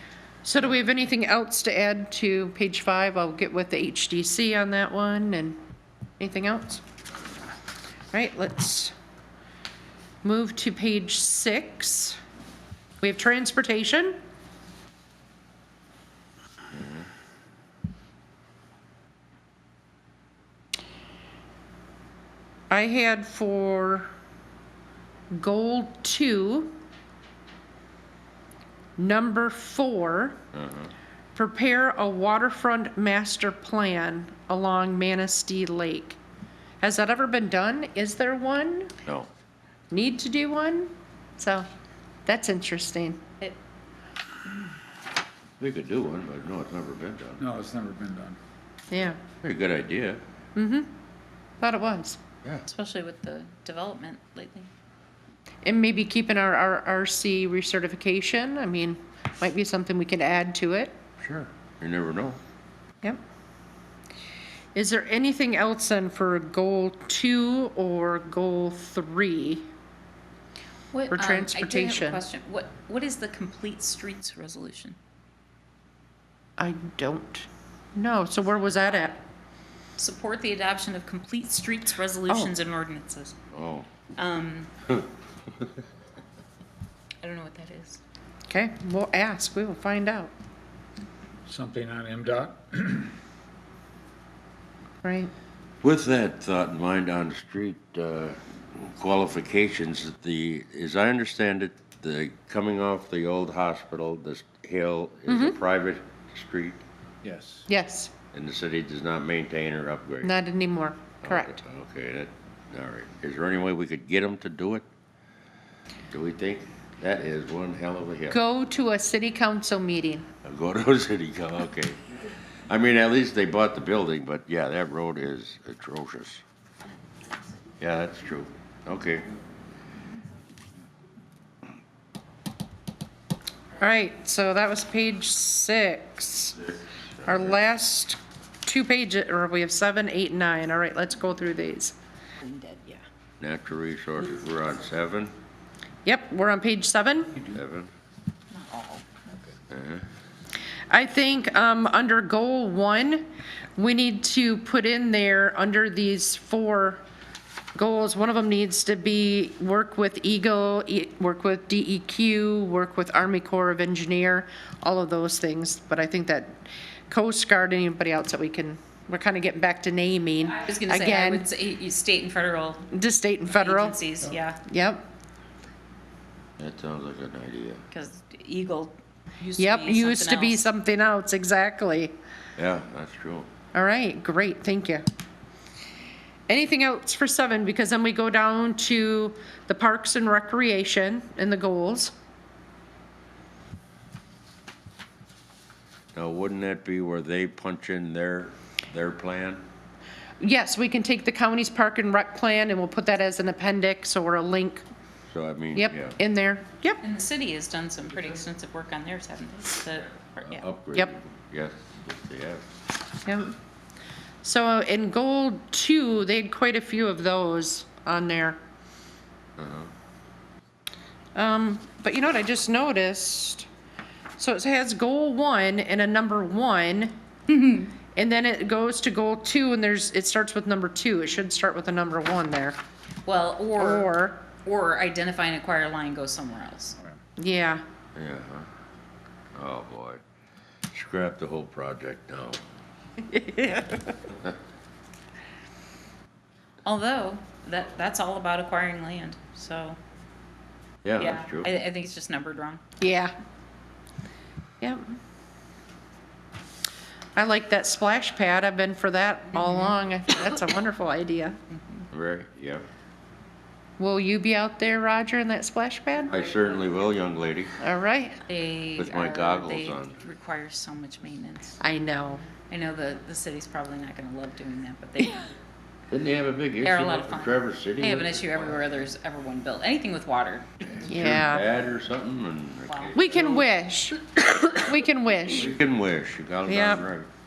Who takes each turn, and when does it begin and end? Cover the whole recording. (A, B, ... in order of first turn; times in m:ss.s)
0:00.4-0:05.6 A
0:06.2-0:06.8 A
0:08.1-0:08.9 A
0:10.2-0:12.2 A
0:13.0-0:14.2 A
0:16.7-0:17.1 B
0:22.7-0:24.1 A
0:25.3-0:26.7 A
0:29.0-0:30.4 A
0:30.5-0:30.9 B
0:31.4-0:36.2 A
0:36.8-0:38.9 A
0:39.0-0:39.3 B
0:39.9-0:41.7 A
0:42.3-0:43.3 A
0:45.6-0:47.4 B
0:47.4-0:48.4 C
0:48.9-0:49.2 A
0:49.3-0:50.2 B
0:50.6-0:50.9 A
0:51.6-0:52.2 A
0:52.7-0:54.7 D
0:55.6-1:01.0 A
1:01.2-1:02.4 B
1:04.8-1:09.7 A
1:10.9-1:15.0 D
1:11.1-1:12.2 A
1:16.6-1:19.2 A
1:20.0-1:23.4 D
1:23.5-1:23.9 B
1:24.2-1:24.7 D
1:27.2-1:28.0 D
1:28.5-1:30.3 A
1:31.5-1:33.2 C
1:35.0-1:35.3 A
1:35.8-1:46.8 B
1:45.3-1:45.6 A
1:47.2-1:47.7 C
1:47.7-1:48.1 A
1:48.3-1:50.4 B
1:50.2-1:51.6 A
1:51.2-1:54.9 B
1:56.1-1:58.4 B
1:58.3-2:00.3 A
2:00.4-2:02.0 B
2:02.7-2:06.4 B
2:07.8-2:09.3 B
2:13.8-2:16.7 A
2:17.2-2:22.0 A
2:22.4-2:23.0 D
2:23.4-2:25.3 B
2:26.0-2:27.4 A
2:27.5-2:27.9 B
2:28.5-2:29.4 D
2:29.7-2:30.1 B
2:30.9-2:37.0 A
2:37.8-2:51.5 A
2:50.5-2:52.9 D
2:52.9-2:54.0 A
2:53.5-2:54.6 D
2:54.6-2:55.1 A
2:56.6-2:57.8 B
2:57.9-3:00.7 D
2:59.6-3:02.2 A
3:02.6-3:03.5 B
3:03.7-3:05.0 A
3:06.5-3:12.1 A
3:16.1-3:19.6 B
3:20.4-3:24.8 A
3:25.3-3:26.2 B
3:25.8-3:27.0 A
3:27.0-3:30.6 D
3:30.4-3:32.7 B
3:33.2-3:33.6 A
3:34.4-3:38.6 A
3:39.6-3:39.9 B
3:41.4-3:43.7 A
3:44.4-3:47.2 A
3:47.5-3:47.9 D
3:48.1-3:52.8 A
3:53.2-3:57.0 D
3:53.8-3:54.4 A
3:57.4-3:57.8 A
3:58.2-3:58.7 B
3:59.6-4:00.2 B
4:00.9-4:02.6 B
4:03.2-4:04.2 A
4:06.8-4:10.0 D
4:11.0-4:11.7 B
4:11.2-4:12.8 D
4:13.0-4:13.3 A
4:17.4-4:21.6 A
4:19.5-4:20.0 D
4:21.7-4:22.1 D
4:22.1-4:22.9 B
4:24.0-4:26.4 A
4:26.3-4:27.8 B
4:27.8-4:28.4 A
4:28.5-4:31.8 D
4:29.0-4:30.2 B
4:31.8-4:32.4 A
4:32.7-4:35.6 D
4:36.1-4:38.6 B
4:36.8-4:40.7 D
4:41.0-4:41.7 A
4:41.0-4:43.7 B
4:42.9-4:43.2 D
4:43.1-4:45.7 A
4:45.6-4:47.3 B
4:46.7-4:47.1 A